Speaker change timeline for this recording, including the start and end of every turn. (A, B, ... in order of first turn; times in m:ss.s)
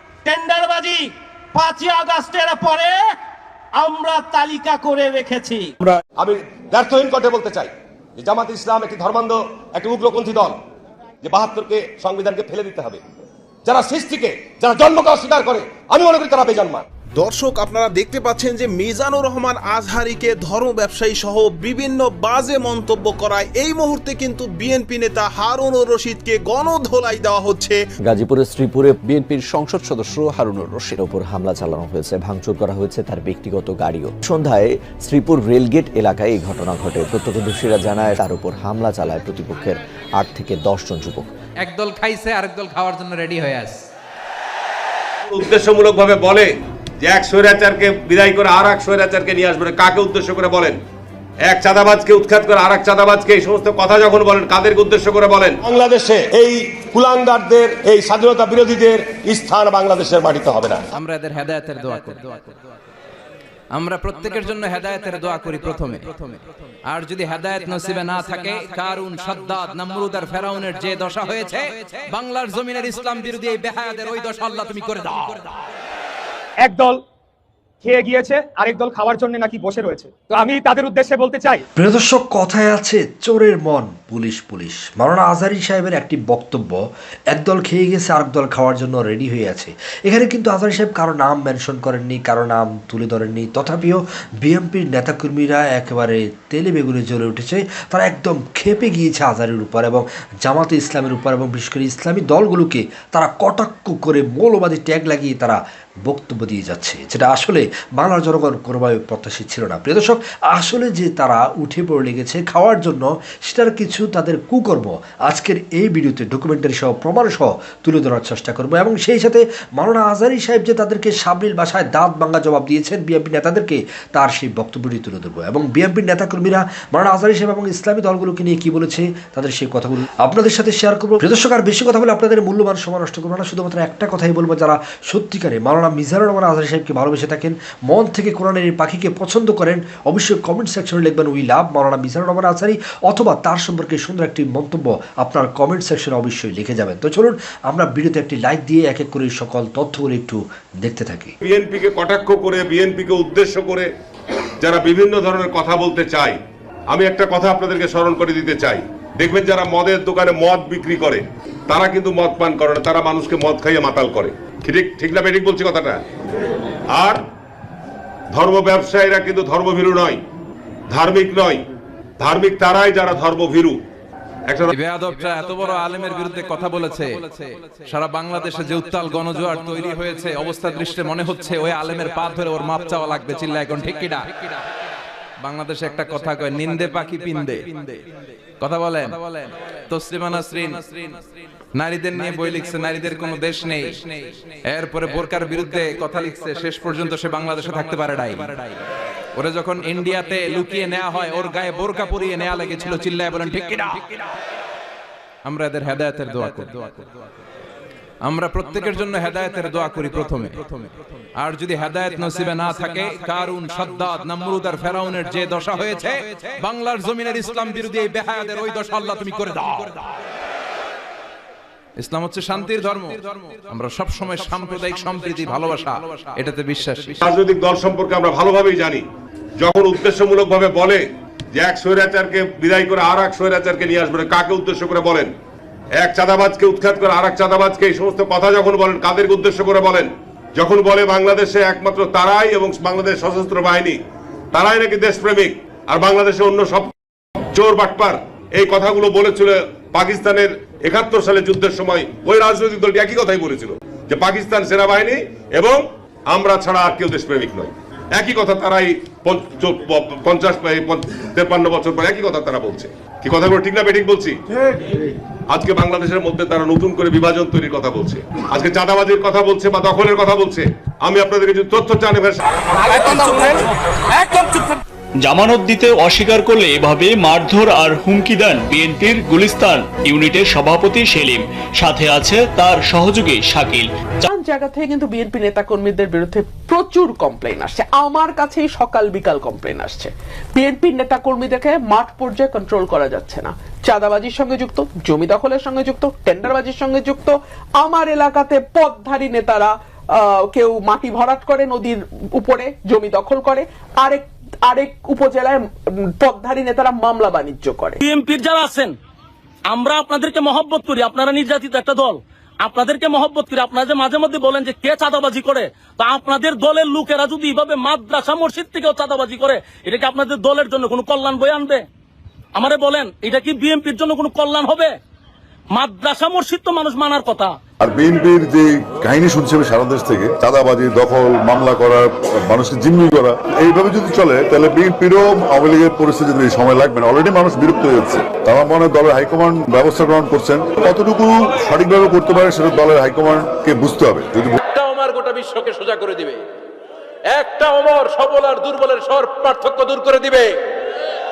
0:00.2-0:03.0 A
0:03.8-0:05.8 A
0:06.2-0:10.6 B
0:11.2-0:13.0 B
0:13.7-0:16.8 B
0:17.2-0:27.8 C
0:28.0-0:41.3 D
0:41.6-0:43.8 E
0:45.3-0:46.5 B
0:47.0-0:50.8 B
0:51.5-1:00.8 B
1:00.9-1:02.6 E
1:03.7-1:15.4 E
1:16.6-1:17.0 F
1:17.8-1:21.6 F
1:21.8-2:31.3 G
2:31.4-2:33.9 B
2:34.6-2:46.0 B
2:46.9-2:47.2 B
2:48.3-2:50.2 B
2:50.9-2:51.6 B
2:52.2-2:53.8 B
2:54.5-2:54.7 B
2:54.7-3:04.5 E
3:05.4-3:08.0 E
3:08.6-3:11.2 E
3:11.7-3:18.8 E
3:19.4-3:24.0 E
3:25.4-3:27.1 E
3:28.2-3:40.0 E
3:42.0-3:47.2 E
3:47.2-3:49.1 B
3:49.6-3:55.3 B
3:56.0-4:04.0 B
4:04.5-4:06.9 B
4:07.5-4:24.4 B
4:25.5-4:33.5 B
4:35.2-4:44.3 H
4:44.3-5:05.6 I
5:06.2-5:08.0 I
5:08.0-5:08.9 J
5:09.7-5:21.8 J
5:22.6-5:24.9 J
5:25.7-5:27.6 J
5:27.8-5:44.6 K
5:44.7-5:46.4 E
5:47.3-5:50.6 E